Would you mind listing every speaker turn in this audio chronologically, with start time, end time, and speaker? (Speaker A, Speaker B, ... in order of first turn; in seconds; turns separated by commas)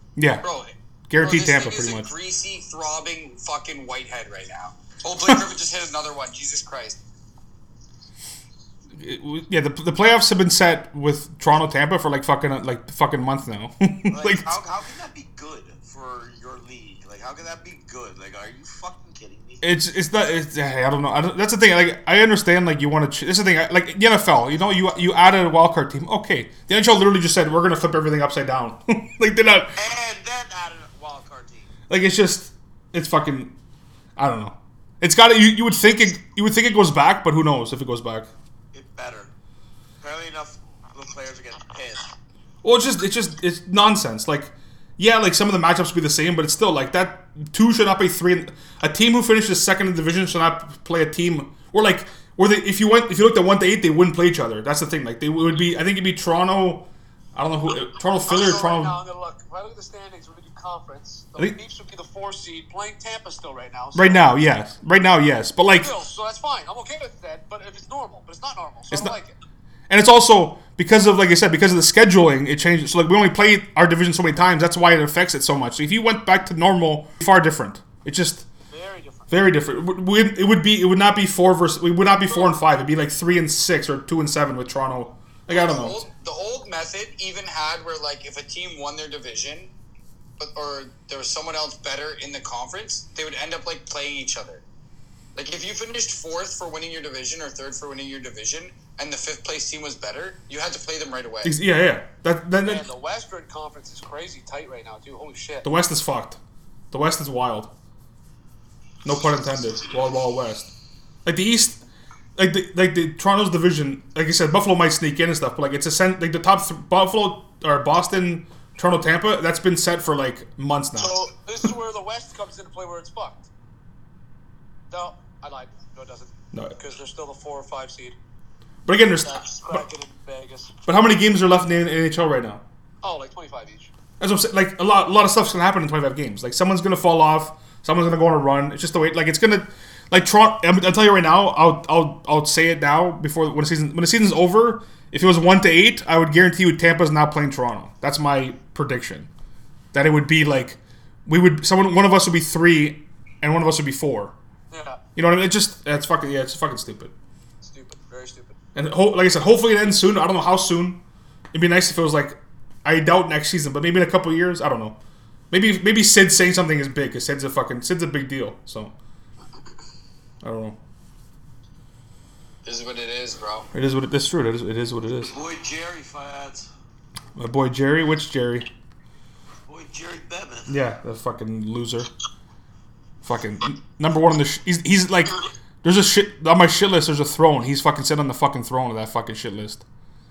Speaker A: 0.2-0.5, Speaker B: 0.4-7.0, Speaker A: 1.1-2.1, Speaker A: 9.0-14.5, Speaker C: 14.1-19.6, Speaker A: 19.6-29.8, Speaker C: 29.8-31.7, Speaker A: 31.9-33.5, Speaker A: 34.2-38.3, Speaker C: 38.7-39.3, Speaker C: 40.0-42.1, Speaker A: 42.6-59.0, Speaker D: 58.3-64.2, Speaker A: 64.0-65.9, Speaker D: 65.8-69.4, Speaker A: 69.9-78.5, Speaker D: 78.7-79.3, Speaker A: 79.3-86.0, Speaker B: 85.5-89.7, Speaker B: 90.4-94.6, Speaker B: 95.3-101.5, Speaker A: 101.4-102.9, Speaker D: 102.6-105.7, Speaker A: 105.6-106.4, Speaker A: 106.9-107.7, Speaker A: 109.0-110.7, Speaker A: 111.2-111.8, Speaker A: 112.4-121.2, Speaker D: 121.0-123.5, Speaker D: 124.9-128.2, Speaker A: 128.9-129.8, Speaker D: 129.2-130.7, Speaker A: 130.9-132.6, Speaker D: 133.0-133.9, Speaker A: 134.2-149.3, Speaker A: 149.9-154.3, Speaker D: 154.7-155.0, Speaker A: 155.2-157.1, Speaker D: 157.6-158.6, Speaker A: 158.8-161.0, Speaker A: 161.5-165.0, Speaker A: 165.5-168.9, Speaker A: 170.4-170.8, Speaker B: 172.7-173.7, Speaker A: 173.7-175.3, Speaker C: 175.2-176.7, Speaker A: 177.4-178.7, Speaker C: 179.7-180.7, Speaker A: 180.7-182.1, Speaker A: 183.2-189.8